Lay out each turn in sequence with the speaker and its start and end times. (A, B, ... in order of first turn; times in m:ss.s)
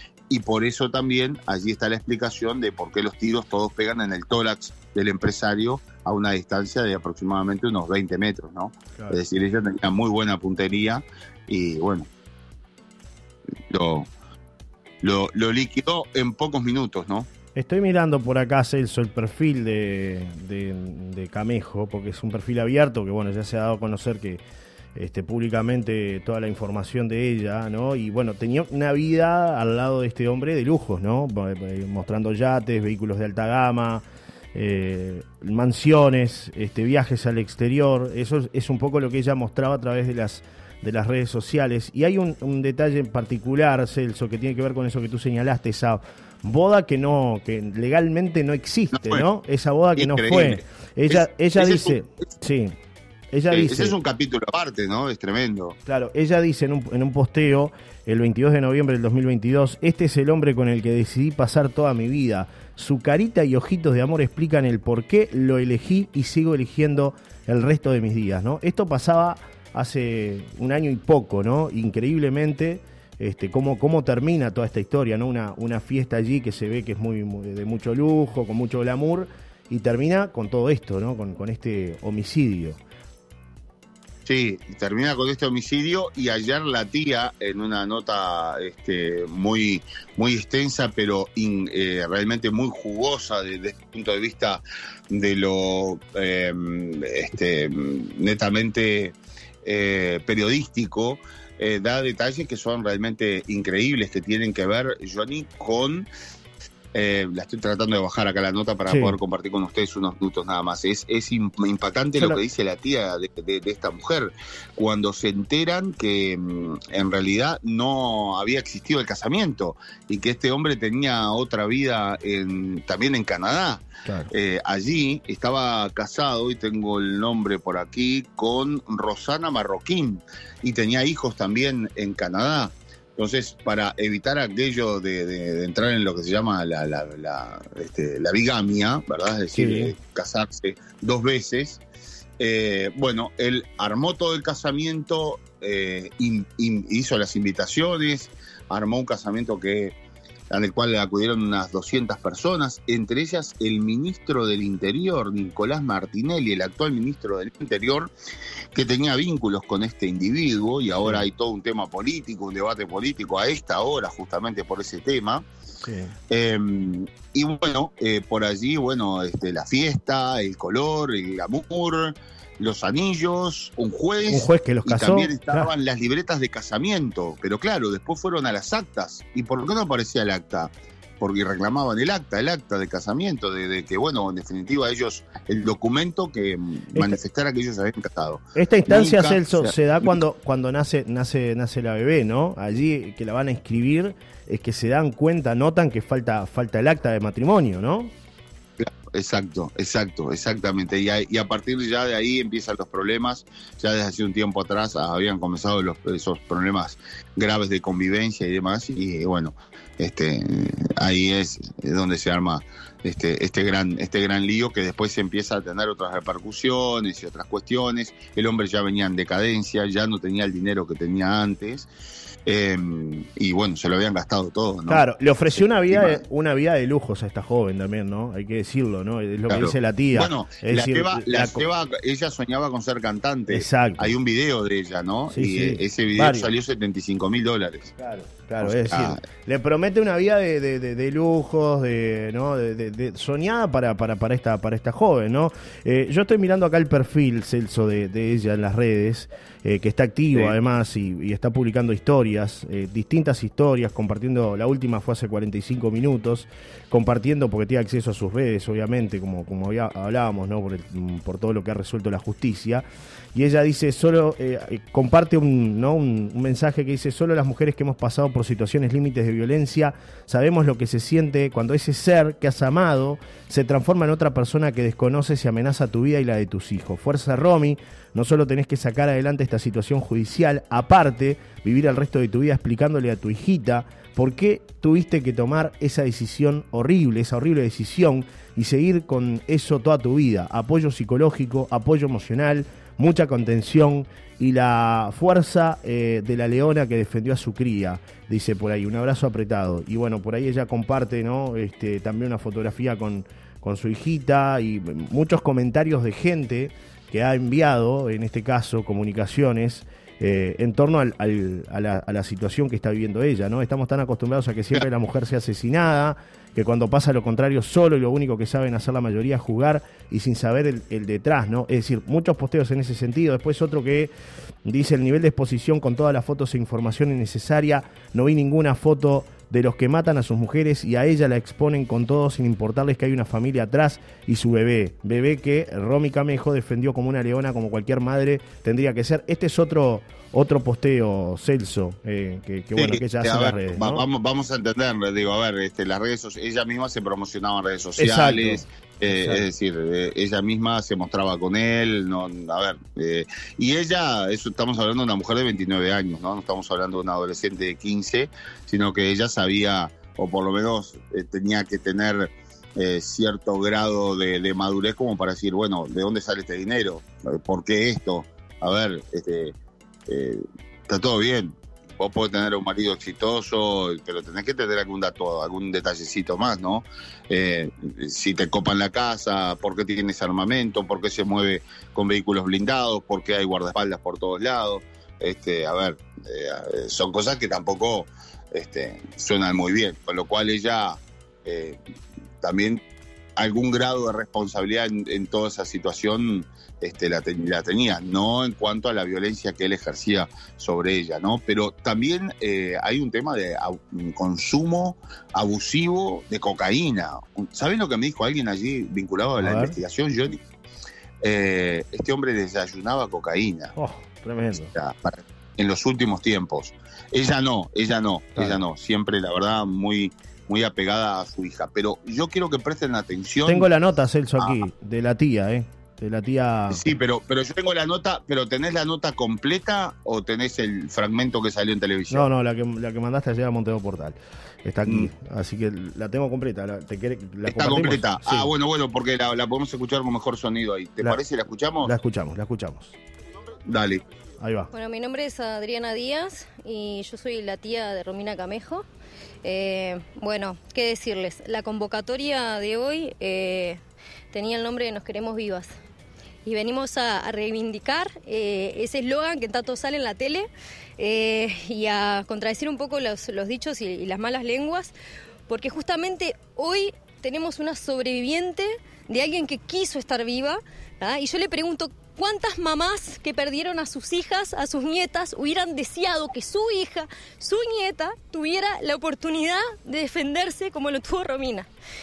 0:00.3-0:12.1 A
0:13.7-0:14.1 A
0:15.0-0:17.3 A
0:17.6-0:24.4 B
0:24.9-0:52.7 B
0:48.9-0:49.2 A
0:50.0-0:52.2 A
0:53.3-0:53.9 B
0:53.5-0:55.8 A
0:55.9-1:22.8 B
1:24.2-1:46.1 A
1:46.9-2:21.8 A
1:48.9-1:49.2 B
2:04.0-2:04.3 B
2:19.5-2:19.9 B
2:22.4-2:29.9 A
2:30.5-2:38.1 A
2:38.7-2:45.4 A
2:41.0-2:41.2 B
2:45.8-2:46.1 B
2:46.3-3:10.2 A
2:54.2-2:55.7 B
3:08.6-3:18.1 B
3:18.8-3:41.9 A
3:42.4-3:45.0 A
3:44.9-3:51.6 B
3:45.9-3:46.2 A
3:49.5-3:57.9 A
3:53.5-3:54.1 B
3:55.3-3:56.5 B
3:58.0-5:24.1 B
3:58.6-3:59.2 A
5:24.6-5:44.0 B
5:42.8-6:09.5 A
5:48.0-5:49.4 B
6:10.1-6:31.8 A
6:32.4-6:32.8 A
6:33.4-6:50.4 A
6:49.4-6:49.8 B
6:51.2-6:53.7 A
6:53.8-6:54.7 B
6:54.6-7:03.7 A
7:03.4-7:06.8 B
7:04.4-7:04.6 A
7:06.7-7:12.3 A
7:12.1-7:18.5 B
7:17.4-7:21.9 A
7:21.8-7:23.0 B
7:23.6-7:24.0 A
7:24.4-7:24.7 B
7:24.7-7:28.8 C
7:29.4-7:33.8 C
7:34.3-7:35.7 C
7:36.4-7:44.9 C
7:45.5-8:01.7 C